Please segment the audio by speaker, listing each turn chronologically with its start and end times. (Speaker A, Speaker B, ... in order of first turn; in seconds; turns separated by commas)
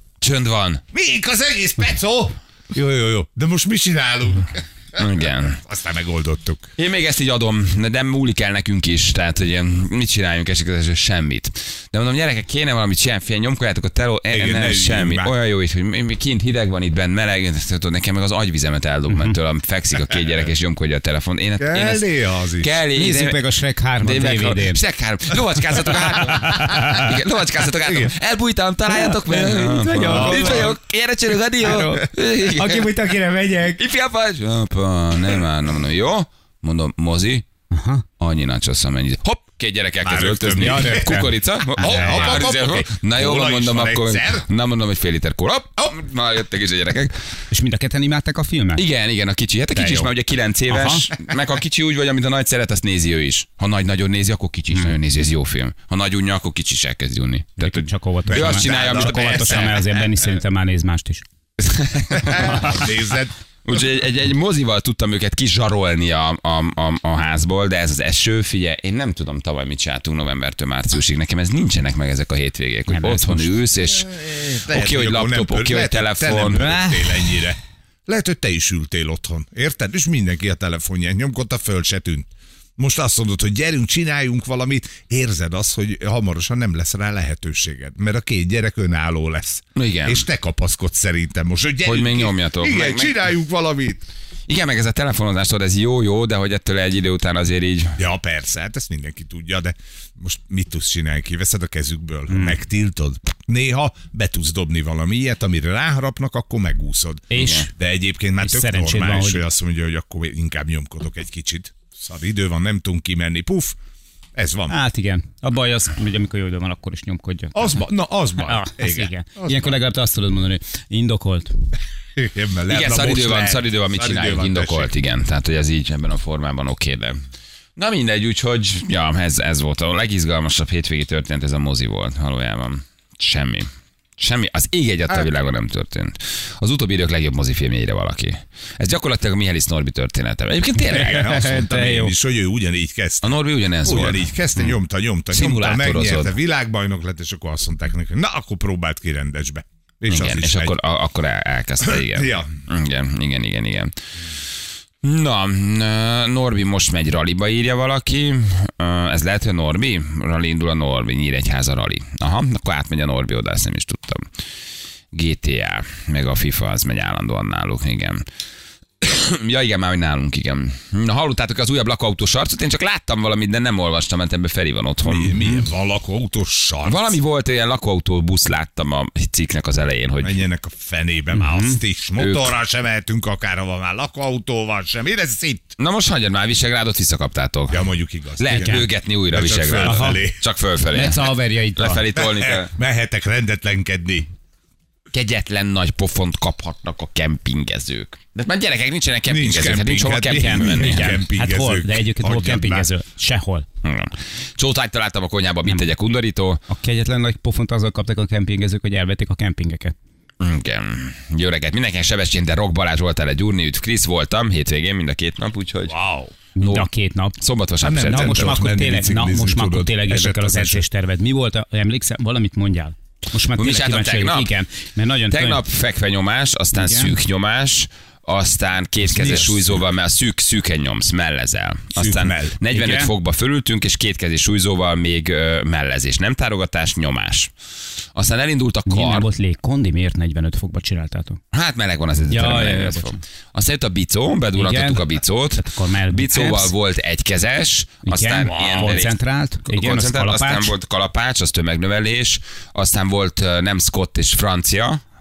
Speaker A: 0.2-0.8, Speaker B: 0.9-6.7, Speaker A: 5.0-5.6, Speaker A: 6.8-22.1, Speaker B: 14.3-15.3, Speaker B: 21.6-22.7, Speaker A: 22.6-23.4, Speaker C: 22.9-24.8, Speaker A: 24.0-33.0, Speaker C: 26.3-27.1, Speaker B: 26.3-27.0, Speaker B: 27.8-28.1, Speaker C: 28.9-30.7, Speaker B: 30.1-30.8, Speaker C: 31.6-33.8, Speaker A: 33.8-37.5, Speaker C: 37.7-38.0, Speaker A: 38.2-47.1, Speaker B: 40.0-44.5, Speaker C: 40.6-42.4, Speaker C: 47.5-48.8, Speaker A: 48.8-59.9, Speaker C: 49.7-50.1, Speaker C: 50.7-51.1, Speaker C: 57.6-61.2, Speaker B: 58.3-59.8, Speaker A: 61.6-62.8, Speaker B: 62.2-63.3, Speaker A: 63.6-76.7, Speaker C: 72.9-73.5, Speaker B: 73.8-94.0, Speaker C: 76.5-77.2, Speaker A: 89.8-90.2, Speaker A: 91.8-93.2, Speaker A: 94.5-98.0, Speaker B: 98.0-113.8, Speaker C: 102.3-102.6, Speaker C: 107.3-107.7, Speaker A: 107.4-107.7, Speaker C: 108.4-109.4, Speaker B: 114.3-114.8, Speaker C: 114.7-117.8, Speaker B: 117.5-119.8, Speaker C: 118.4-121.6, Speaker B: 122.2-124.9, Speaker A: 122.7-127.2, Speaker A: 127.8-141.6, Speaker B: 140.9-150.8, Speaker C: 141.1-142.1, Speaker A: 143.2-144.8, Speaker A: 145.3-146.3, Speaker A: 150.1-153.9, Speaker B: 151.8-152.5, Speaker A: 155.0-164.3, Speaker A: 165.1-168.2, Speaker A: 169.0-175.4, Speaker B: 175.0-177.2, Speaker A: 176.8-180.4, Speaker B: 180.2-185.8, Speaker C: 181.3-181.8, Speaker A: 182.2-182.5, Speaker A: 185.8-187.9, Speaker B: 187.7-190.4, Speaker A: 188.4-192.7, Speaker C: 188.5-188.8, Speaker C: 189.8-190.2, Speaker C: 190.9-192.0, Speaker B: 192.2-194.3, Speaker A: 195.1-201.2, Speaker B: 199.3-202.9, Speaker C: 200.3-203.7, Speaker A: 203.8-206.6, Speaker C: 206.7-209.9, Speaker A: 210.4-215.9, Speaker B: 215.9-216.3, Speaker C: 216.6-217.4, Speaker A: 216.6-218.6, Speaker B: 217.8-220.8, Speaker C: 218.0-225.6, Speaker A: 223.6-224.5, Speaker A: 225.3-237.5, Speaker C: 226.8-227.1, Speaker B: 229.0-229.8, Speaker B: 231.9-232.6, Speaker C: 232.7-233.1, Speaker A: 238.2-239.3, Speaker C: 238.9-241.4, Speaker A: 241.5-249.2, Speaker C: 242.3-243.2, Speaker C: 244.6-246.7, Speaker C: 248.1-250.7, Speaker A: 249.7-255.0